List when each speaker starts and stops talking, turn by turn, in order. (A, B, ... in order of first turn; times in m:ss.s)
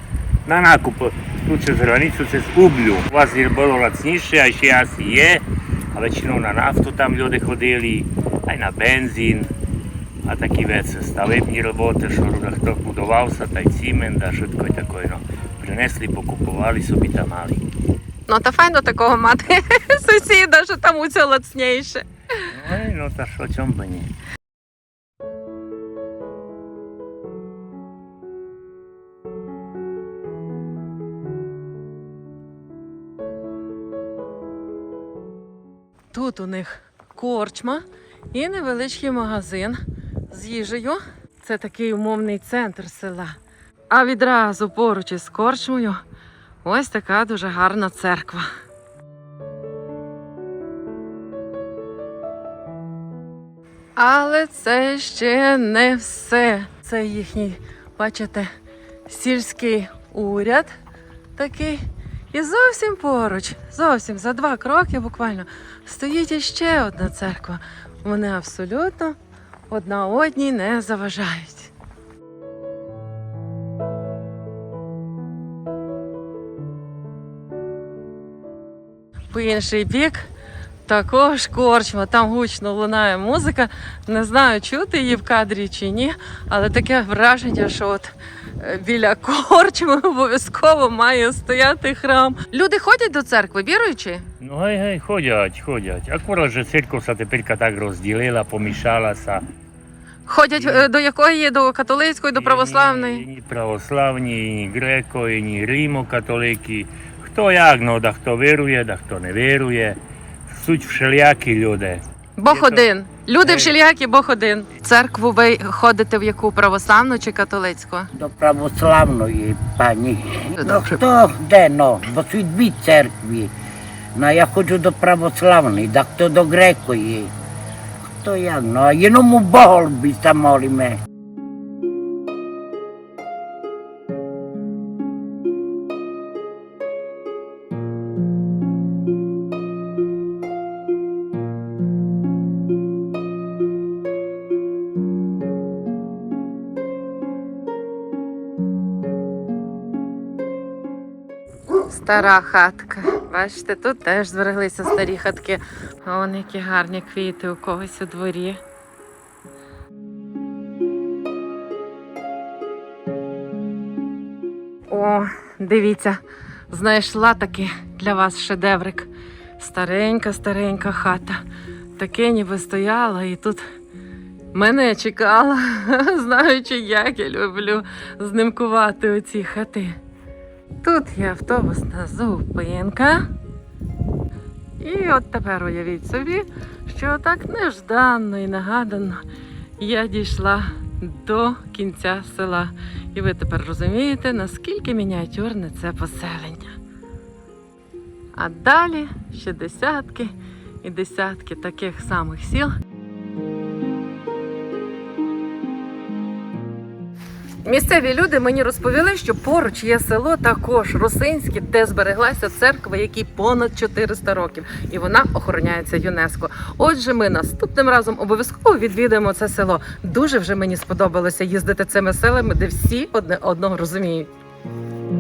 0:00.5-0:09.5 A
0:10.3-0:17.6 A
0:18.3-0:22.0 B
0:22.5-0:24.1 A
0:36.1-0:37.8 B
0:38.3-0:39.8 B
0:40.3-0:43.3 B
0:43.9-0:46.0 B
0:46.6-0:48.5 B
0:54.0-0:58.5 B
0:59.1-1:00.7 B
1:01.4-1:09.2 B
1:09.7-1:11.7 B
1:19.3-1:20.3 B
1:20.9-1:34.2 B
1:34.4-1:39.4 A
1:40.3-1:43.2 B
1:40.6-1:40.9 A
1:42.4-1:52.8 A
1:52.4-1:58.1 B
1:53.4-1:53.7 A
1:58.2-2:03.5 C
2:00.6-2:01.0 B
2:04.2-2:07.3 C
2:08.2-2:11.0 C
2:31.9-2:38.6 B
2:44.9-2:46.2 B
2:46.7-2:51.4 B
2:52.0-2:53.6 B
2:54.5-3:00.0 B
3:00.8-3:03.2 B
3:04.8-3:09.2 B
3:09.8-3:16.7 B
3:18.4-3:20.3 B
3:20.8-3:22.7 B
3:27.6-3:44.3 B